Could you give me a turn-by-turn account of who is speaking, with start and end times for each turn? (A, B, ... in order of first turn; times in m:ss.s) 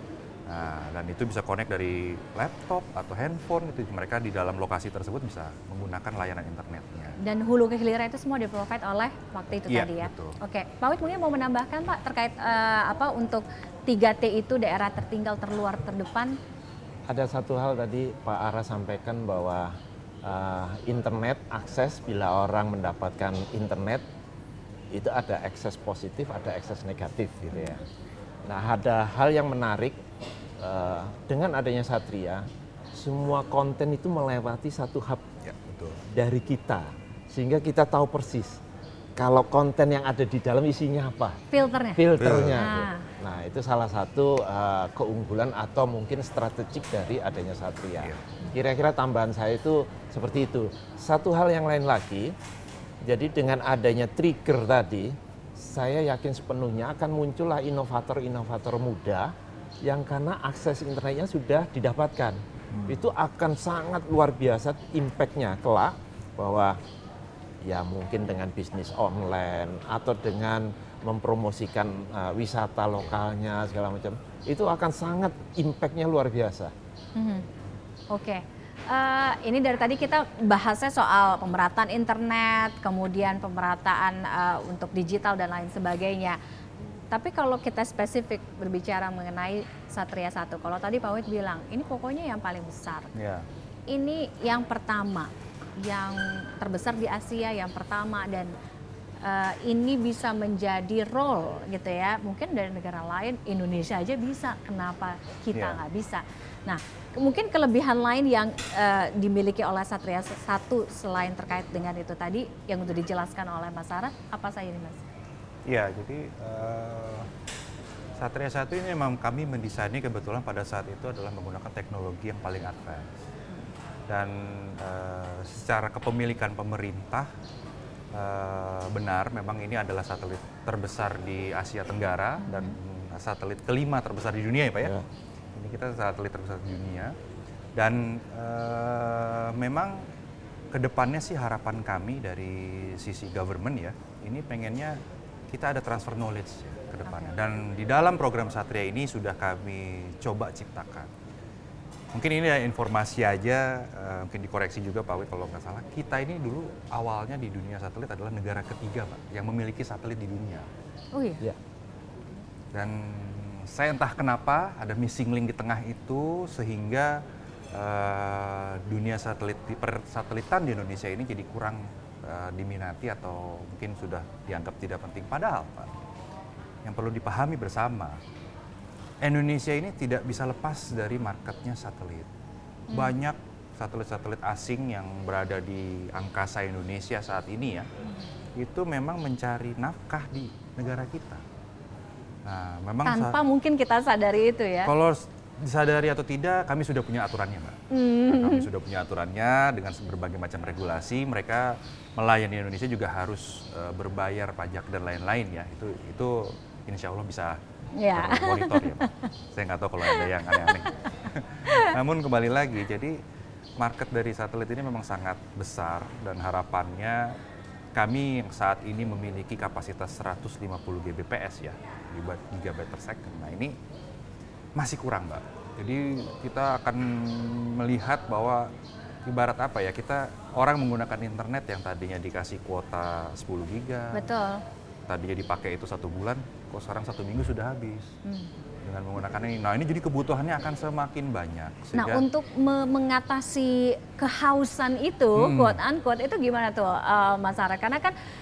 0:00.5-0:07.2 A
0:07.2-0:16.4 B
0:09.6-0:10.4 A
0:17.1-0:24.0 C
0:24.9-0:27.8 C
0:27.5-0:27.8 A
0:28.4-0:30.0 C
0:30.6-0:35.3 C
0:35.4-0:36.0 A
0:36.1-0:38.6 C
0:39.2-0:41.4 C
0:41.5-0:43.1 B
0:41.9-0:52.3 C
0:42.2-0:42.7 A
0:53.0-1:06.8 C
1:07.6-1:16.7 C
1:17.2-1:17.4 B
1:18.1-1:26.4 B
1:27.1-1:33.1 B
1:33.1-1:33.4 A
1:33.9-1:38.5 B
1:39.2-1:55.0 B
1:45.5-1:45.8 A
1:55.6-1:57.3 A
1:58.2-2:03.1 A
2:04.1-2:07.3 A
2:08.1-2:14.9 A
2:12.4-2:12.8 B
2:15.6-2:17.1 A
2:17.8-2:20.1 A
2:20.7-2:25.0 A
2:25.5-2:31.1 A
2:27.0-2:27.3 B
2:32.1-2:40.7 A
2:41.1-2:41.4 B
2:42.7-2:47.2 A
2:47.7-2:55.9 A
2:56.8-2:58.2 A
2:59.2-3:02.3 A
3:02.9-3:03.1 B
3:02.9-3:07.9 A
3:08.6-3:11.4 A
3:12.4-3:13.4 A
3:13.0-3:14.9 B
3:14.8-3:27.6 A
3:17.9-3:18.6 B
3:28.0-3:29.1 B
3:28.1-3:33.2 A
3:30.0-3:30.9 B
3:31.7-3:31.9 B
3:33.8-3:37.4 A
3:37.9-3:43.8 A
3:44.8-3:48.7 A
3:49.3-3:54.3 A
3:54.1-3:54.6 B
3:55.1-3:58.1 A
3:58.2-3:58.5 B
3:58.8-4:02.2 A
4:01.9-4:08.1 B
4:05.4-4:05.8 A